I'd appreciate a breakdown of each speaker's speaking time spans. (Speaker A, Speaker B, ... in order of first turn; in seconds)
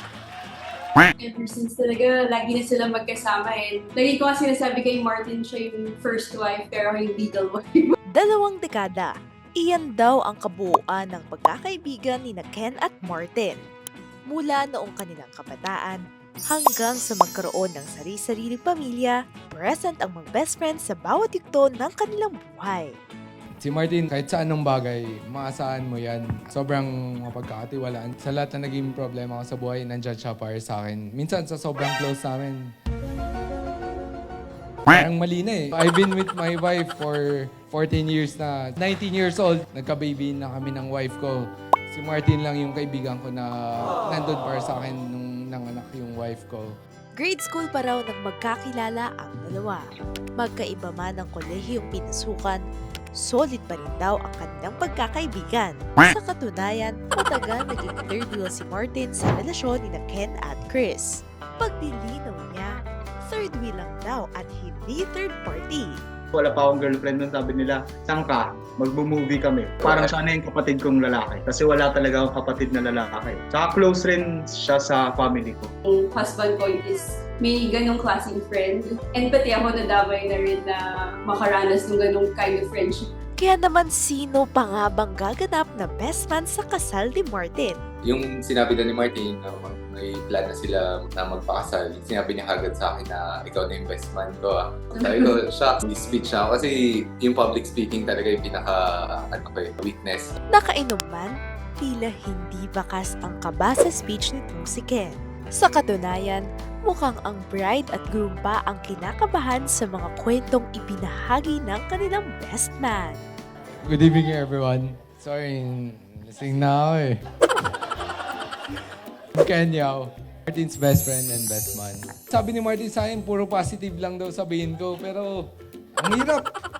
Speaker A: 1.2-7.9, 75.8-83.1
Speaker B: 8.1-13.6, 14.3-22.9, 47.2-49.8, 50.4-52.6, 53.2-66.0, 83.4-87.8, 100.5-113.2
Speaker C: 23.6-32.6, 34.9-46.7, 113.9-117.2, 119.3-125.4, 126.0-126.5
Speaker D: 66.3-75.7
Speaker E: 69.8-70.1, 88.0-100.3